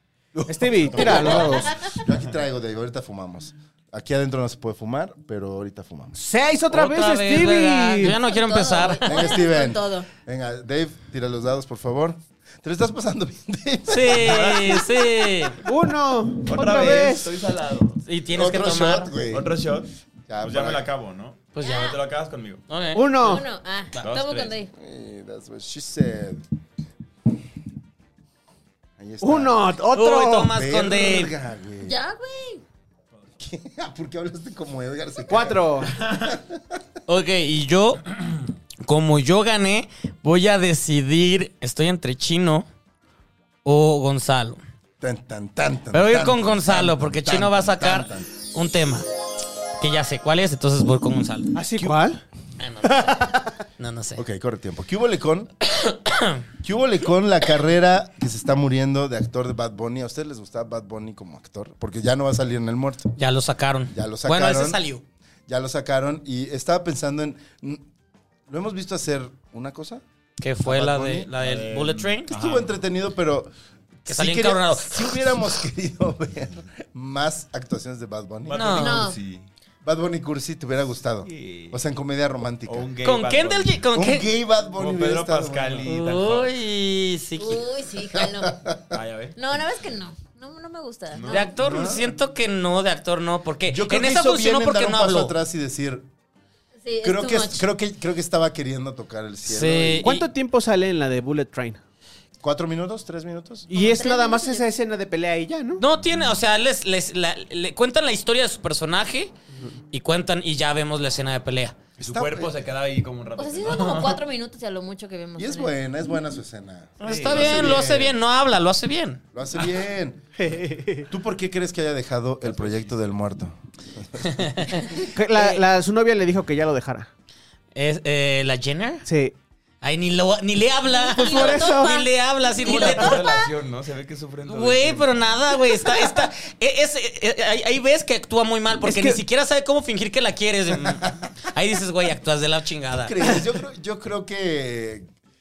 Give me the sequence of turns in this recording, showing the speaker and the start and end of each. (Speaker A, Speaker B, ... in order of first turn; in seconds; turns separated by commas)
Speaker A: 0.3-6.1, Speaker B: 0.5-1.7, Speaker C: 0.9-2.0, Speaker B: 6.1-8.2, Speaker D: 6.7-9.2, Speaker C: 8.2-10.1, Speaker A: 9.0-14.8, Speaker D: 13.9-15.6, Speaker E: 14.1-14.9, Speaker B: 15.6-17.3, Speaker E: 16.4-18.0, Speaker D: 18.0-19.1, Speaker A: 18.3-19.6, Speaker E: 19.3-19.9, Speaker A: 20.3-20.9, Speaker E: 20.4-22.6, Speaker D: 21.5-21.9, Speaker C: 21.6-21.9, Speaker D: 22.7-23.1, Speaker B: 22.9-23.4, Speaker C: 23.2-24.7, Speaker E: 23.9-24.6, Speaker A: 24.7-26.4, Speaker A: 29.0-29.6, Speaker B: 29.2-30.5, Speaker D: 29.9-31.3, Speaker A: 30.5-31.9, Speaker C: 31.8-32.6, Speaker A: 33.4-36.8, Speaker B: 35.3-36.0, Speaker E: 36.0-36.3, Speaker D: 37.1-38.0, Speaker D: 38.8-42.6, Speaker D: 43.6-44.6, Speaker A: 45.0-48.3, Speaker D: 45.9-49.0, Speaker D: 49.8-51.5, Speaker B: 51.5-52.2, Speaker D: 52.6-54.2, Speaker B: 52.9-53.5, Speaker A: 54.1-55.5, Speaker D: 55.8-56.4, Speaker A: 56.6-63.1, Speaker D: 63.2-65.0, Speaker A: 63.9-64.8, Speaker A: 65.5-67.8, Speaker A: 68.5-70.0, Speaker D: 70.4-72.3, Speaker A: 70.6-71.3, Speaker E: 71.4-72.7, Speaker A: 72.3-73.5, Speaker A: 74.0-78.8, Speaker D: 74.1-75.3, Speaker E: 78.5-79.5, Speaker D: 78.5-79.0, Speaker C: 78.8-79.2, Speaker A: 79.8-82.9, Speaker E: 81.2-81.8, Speaker E: 82.6-83.8, Speaker D: 83.0-84.3, Speaker A: 83.9-85.9, Speaker E: 84.7-86.5, Speaker D: 85.8-87.6, Speaker C: 87.4-88.6, Speaker A: 88.1-89.0, Speaker E: 88.9-89.4, Speaker C: 89.3-91.5, Speaker E: 91.1-91.5, Speaker D: 91.3-95.3, Speaker A: 91.5-92.1, Speaker A: 93.7-96.1, Speaker C: 96.8-97.6, Speaker A: 97.0-100.1, Speaker D: 99.4-100.2, Speaker B: 100.0-101.8, Speaker A: 102.4-103.7, Speaker B: 103.7-105.8, Speaker C: 103.7-104.7, Speaker D: 105.8-109.3, Speaker D: 109.9-111.8, Speaker A: 112.0-112.5, Speaker E: 112.0-114.2, Speaker C: 113.4-115.7, Speaker A: 115.4-118.2, Speaker D: 117.0-119.2, Speaker E: 117.0-117.8, Speaker A: 119.3-120.2, Speaker B: 120.4-121.1, Speaker A: 121.1-125.0, Speaker E: 122.4-122.9, Speaker D: 124.4-125.6, Speaker B: 125.0-127.1, Speaker D: 127.7-129.1, Speaker B: 129.1-129.3, Speaker D: 129.8-133.2, Speaker C: 130.9-133.5, Speaker B: 131.1-132.1, Speaker E: 132.6-135.5, Speaker D: 134.5-143.2, Speaker B: 138.8-139.2, Speaker A: 140.8-141.3, Speaker A: 142.9-145.1